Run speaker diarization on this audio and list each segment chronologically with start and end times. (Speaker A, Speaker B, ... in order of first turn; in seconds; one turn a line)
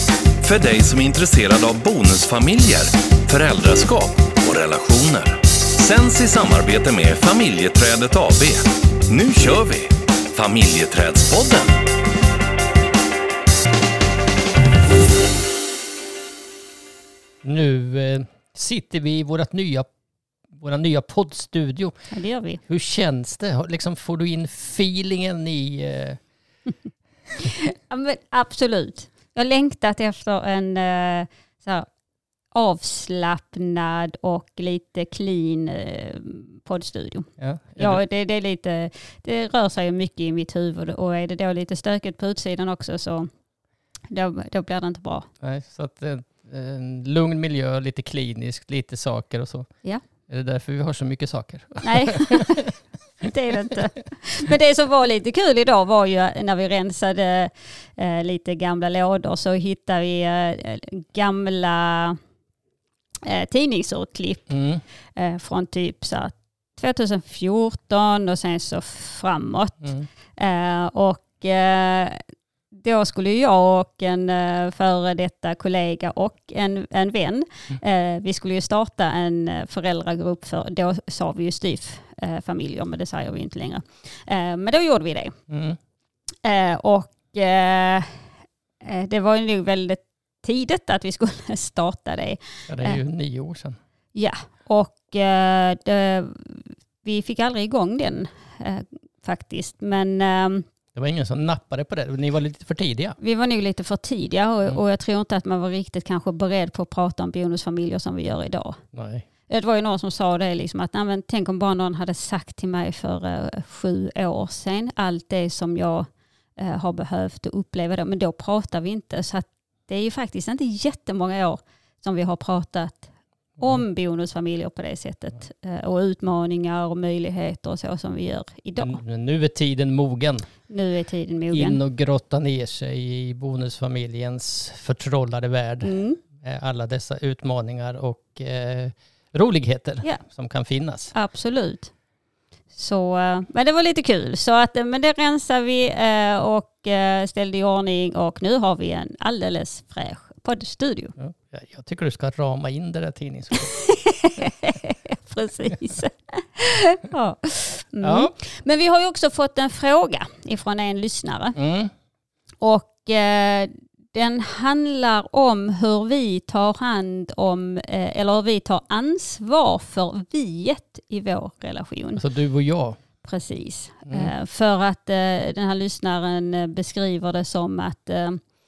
Speaker A: 0.4-11.8
Speaker B: 17.4-19.9
Speaker B: 20.5-21.9
Speaker C: 22.1-22.6
Speaker B: 22.7-26.2
Speaker C: 27.4-31.9
Speaker C: 32.5-43.3
Speaker B: 37.4-38.0
Speaker C: 44.1-45.3
Speaker B: 45.4-49.7
Speaker B: 50.3-52.7
Speaker C: 51.8-62.2
Speaker C: 63.2-64.5
Speaker B: 64.5-64.8
Speaker C: 65.2-85.4
Speaker B: 85.5-85.8
Speaker C: 86.4-88.2
Speaker C: 88.8-93.0
Speaker B: 92.7-93.8
Speaker C: 94.1-100.7
Speaker B: 100.9-103.2
Speaker C: 103.2-108.8
Speaker B: 108.9-109.2
Speaker C: 109.5-129.0
Speaker B: 128.8-130.5
Speaker C: 130.7-131.8
Speaker B: 131.5-141.1
Speaker C: 135.8-136.2
Speaker C: 141.1-141.9
Speaker C: 142.7-151.1
Speaker B: 151.2-153.8
Speaker C: 153.7-161.6
Speaker B: 158.0-158.3
Speaker B: 161.6-161.9
Speaker C: 162.6-172.2
Speaker B: 172.2-173.0
Speaker C: 173.2-178.4
Speaker B: 174.1-174.3